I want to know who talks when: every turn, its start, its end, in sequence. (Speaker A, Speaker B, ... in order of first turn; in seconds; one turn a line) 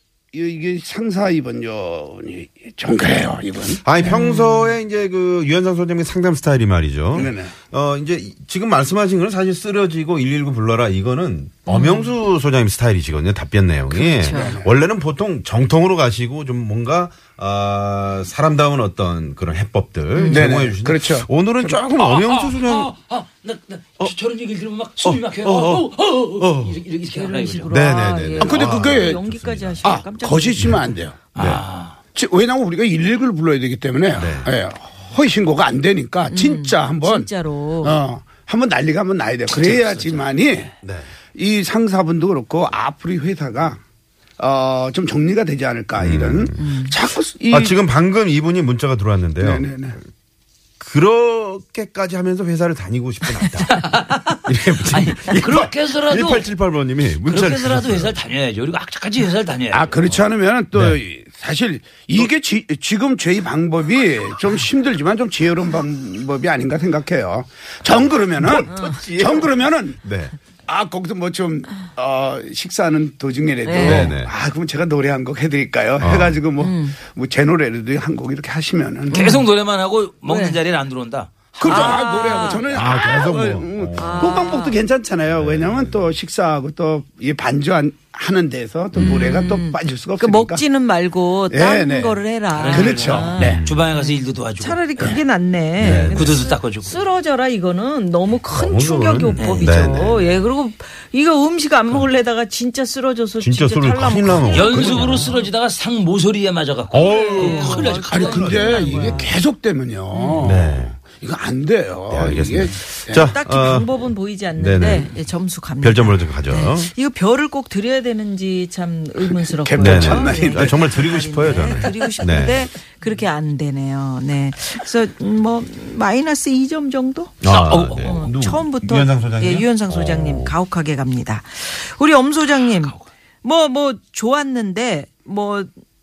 Speaker A: 0.3-3.8
Speaker B: 3.8-22.9
Speaker C: 4.0-4.7
Speaker A: 7.1-7.5
Speaker C: 11.7-12.1
Speaker C: 13.9-14.6
Speaker A: 14.3-14.7
Speaker C: 20.1-20.5
Speaker A: 20.3-21.3
Speaker D: 21.8-27.7
Speaker B: 25.0-26.8
Speaker C: 27.1-30.9
Speaker B: 27.7-29.9
Speaker A: 28.4-29.2
Speaker A: 29.8-31.2
Speaker B: 30.6-30.8
Speaker D: 31.3-32.0
Speaker B: 31.4-31.6
Speaker A: 32.1-37.3
Speaker B: 34.1-34.5
Speaker C: 36.3-38.0
Speaker A: 37.8-40.7
Speaker D: 39.5-40.3
Speaker B: 40.8-41.1
Speaker A: 41.3-43.8
Speaker A: 44.4-47.8
Speaker B: 46.0-46.6
Speaker C: 46.6-46.9
Speaker B: 47.5-49.7
Speaker A: 49.4-50.0
Speaker B: 50.8-53.9
Speaker D: 53.7-56.5
Speaker B: 54.4-58.1
Speaker D: 57.2-60.0
Speaker A: 59.7-70.0
Speaker B: 60.7-61.0
Speaker B: 68.4-70.3
Speaker C: 68.7-69.0
Speaker A: 70.7-79.2
Speaker C: 73.6-74.1
Speaker B: 73.7-74.3
Speaker B: 76.0-76.4
Speaker C: 76.6-77.0
Speaker C: 79.1-79.5
Speaker D: 79.1-82.5
Speaker C: 80.3-80.6
Speaker A: 81.6-90.6
Speaker C: 81.6-82.7
Speaker B: 82.6-84.5
Speaker C: 84.0-84.8
Speaker B: 85.3-86.1
Speaker C: 88.9-105.5
Speaker A: 91.5-93.6
Speaker D: 92.5-95.2
Speaker B: 93.3-93.8
Speaker B: 95.8-96.4
Speaker D: 95.8-97.0
Speaker B: 98.5-100.4
Speaker D: 99.4-99.8
Speaker B: 103.4-105.3
Speaker D: 104.5-109.0
Speaker B: 106.9-109.3
Speaker C: 107.0-109.3
Speaker A: 108.1-113.3
Speaker C: 110.1-110.5
Speaker B: 110.4-110.9
Speaker B: 112.1-114.0
Speaker C: 113.3-135.7
Speaker B: 114.6-115.2
Speaker B: 115.8-116.9
Speaker A: 119.3-121.0
Speaker B: 119.8-122.7
Speaker B: 127.4-130.5
Speaker D: 127.4-128.2
Speaker D: 132.7-133.0